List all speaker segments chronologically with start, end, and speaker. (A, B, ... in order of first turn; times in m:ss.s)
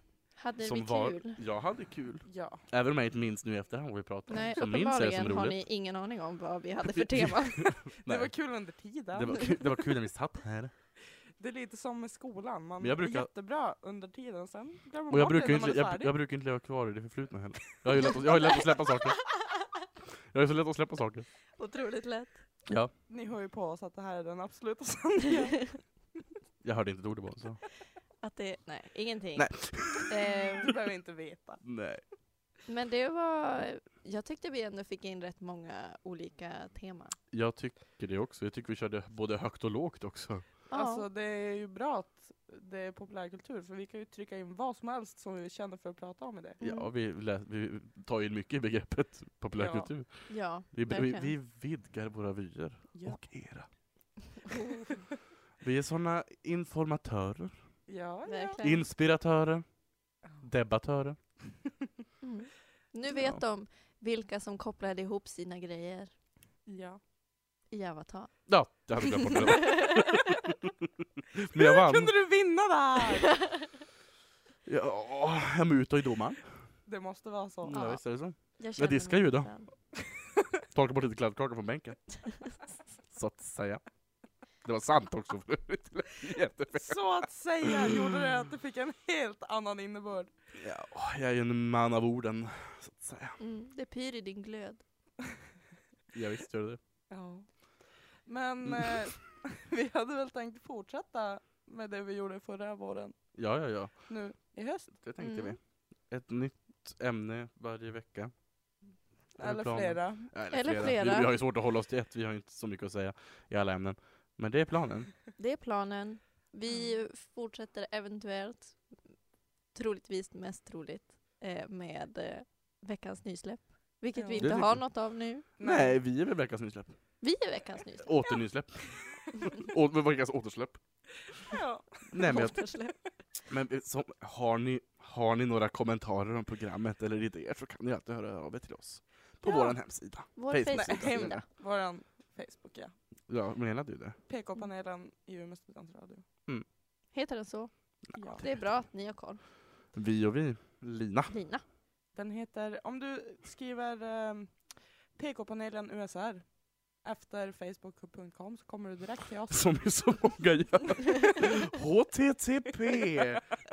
0:00.4-0:01.4 A
0:00.6-0:05.6 B
0:02.3-0:02.6 C
0:04.3-0:07.8 A
0:06.8-0:08.3 B
0:08.0-0:09.6 C
0:09.1-0:10.7 B
0:11.4-0:16.1 C
0:12.8-0:13.3 B
0:15.1-0:19.2 B
0:20.3-0:21.3 B
0:21.6-0:22.4 A
0:22.7-0:22.9 B
0:23.1-0:25.8 C
0:25.3-0:25.7 A
0:26.6-0:27.6 B
0:28.2-0:30.7 A
0:29.4-0:30.1 B
0:30.6-0:31.6 C
0:31.6-0:32.0 B
0:32.7-0:37.2 A
0:37.3-0:40.4 B
0:40.7-0:41.0 A
0:40.7-0:46.6 C
0:46.6-0:46.9 A
0:46.6-0:53.7 B
0:49.6-0:49.9 C
0:50.3-0:51.3 A
0:52.9-0:53.2 C
0:54.5-0:54.8 A
0:55.6-0:57.6 B
0:57.9-0:58.6 C
0:58.2-0:58.9 A
0:58.6-0:59.6 B
1:00.4-1:01.2 B
1:02.2-1:06.1 A
1:03.1-1:03.4 B
1:06.7-1:07.0 C
1:07.7-1:09.7 A
1:08.4-1:10.6 B
1:11.2-1:12.1 B
1:11.5-1:13.5 C
1:14.6-1:16.5 B
1:16.9-1:17.8 C
1:17.6-1:19.5 B
1:17.7-1:19.7 A
1:20.7-1:22.5 B
1:23.1-1:23.8 B
1:24.6-1:27.0 B
1:26.7-1:30.3 C
1:27.7-1:28.2 B
1:30.6-1:33.4 B
1:33.4-1:34.8 A
1:36.1-1:36.8 B
1:37.1-1:43.4 C
1:38.6-1:39.0 B
1:43.3-1:44.1 B
1:44.0-1:44.9 C
1:44.9-1:48.3 B
1:45.2-1:45.6 A
1:49.4-1:50.3 C
1:49.4-1:55.1 B
1:50.5-1:51.3 A
1:55.4-1:58.8 A
1:59.7-2:05.4 A
2:04.1-2:04.6 C
2:04.4-2:04.8 B
2:05.6-2:06.0 C
2:05.6-2:06.9 B
2:07.2-2:08.1 A
2:08.0-2:10.8 B
2:11.4-2:12.1 C
2:12.1-2:12.6 B
2:12.2-2:13.0 A
2:13.5-2:21.4 B
2:19.4-2:19.7 A
2:20.3-2:21.4 A
2:20.7-2:22.9 C
2:23.3-2:24.2 B
2:24.3-2:26.2 C
2:27.1-2:27.7 A
2:28.2-2:28.4 C
2:28.2-2:28.6 B
2:28.2-2:29.4 A
2:29.9-2:31.3 B
2:31.3-2:31.6 A
2:32.1-2:40.0 C
2:39.5-2:43.5 B